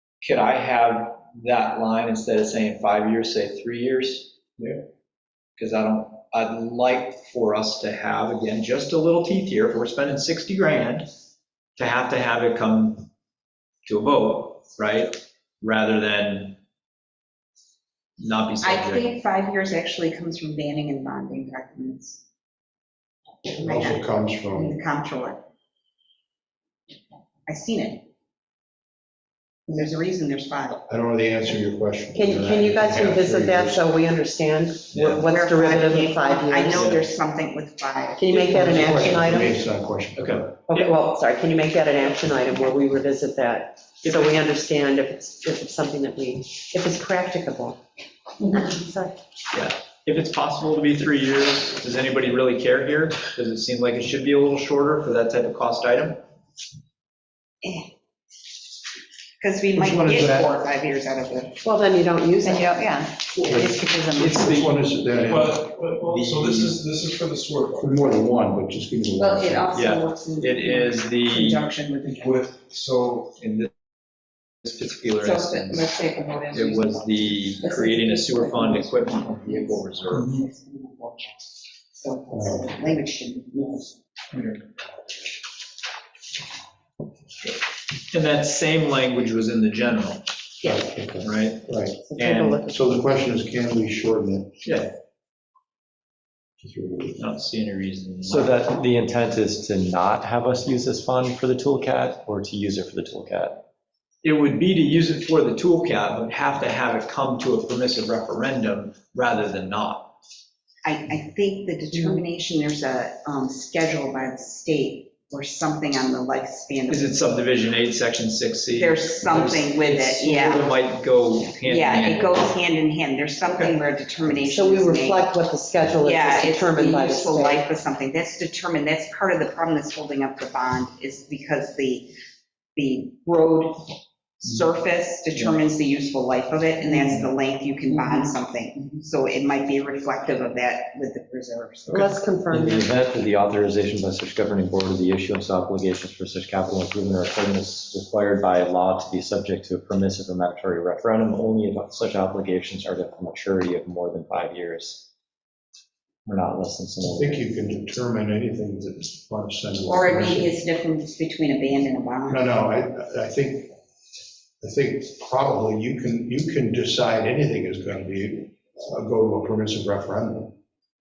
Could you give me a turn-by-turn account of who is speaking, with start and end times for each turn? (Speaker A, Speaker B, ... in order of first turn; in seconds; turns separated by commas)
Speaker A: 0.2-4.4, Speaker A: 5.6-11.1, Speaker A: 11.8-13.1, Speaker A: 13.8-16.6, Speaker A: 18.2-19.2, Speaker B: 18.6-22.2, Speaker B: 23.5-25.4, Speaker C: 23.6-24.8, Speaker B: 27.5-28.0, Speaker B: 29.7-30.8, Speaker C: 30.9-33.9, Speaker D: 32.1-36.9, Speaker A: 34.9-35.2, Speaker B: 34.9-38.3, Speaker A: 36.7-37.0, Speaker D: 38.2-39.6, Speaker C: 38.4-40.6, Speaker A: 40.2-41.1, Speaker D: 40.7-47.8, Speaker A: 44.0-44.4, Speaker D: 48.5-49.2, Speaker A: 49.5-56.2, Speaker B: 57.6-57.9, Speaker B: 59.4-61.6, Speaker C: 59.8-60.5, Speaker D: 61.6-62.8, Speaker B: 62.4-64.6, Speaker C: 63.4-65.7, Speaker A: 64.1-64.8, Speaker E: 65.3-68.0, Speaker A: 66.1-66.8, Speaker C: 67.8-69.7, Speaker B: 69.2-72.4, Speaker A: 69.7-71.7, Speaker E: 72.1-73.4, Speaker A: 73.4-73.7, Speaker A: 74.6-76.0, Speaker B: 75.2-84.0, Speaker A: 76.5-80.3, Speaker E: 80.1-80.4, Speaker C: 82.3-82.7, Speaker E: 84.3-84.7, Speaker A: 88.1-90.3, Speaker C: 90.6-92.0, Speaker A: 91.2-92.6, Speaker D: 92.0-93.1, Speaker C: 92.6-94.5, Speaker A: 94.6-94.9, Speaker C: 96.6-97.2, Speaker A: 97.2-98.6, Speaker F: 98.3-103.6, Speaker A: 104.2-110.2, Speaker B: 110.8-117.2, Speaker A: 116.9-122.4, Speaker B: 118.7-120.8, Speaker B: 121.6-125.3, Speaker D: 124.5-127.6, Speaker B: 126.0-132.1, Speaker B: 132.8-142.2, Speaker D: 141.9-142.9, Speaker F: 142.5-155.1, Speaker F: 156.3-157.3, Speaker C: 157.0-160.6, Speaker B: 159.9-162.5, Speaker C: 162.3-163.8, Speaker C: 164.6-170.6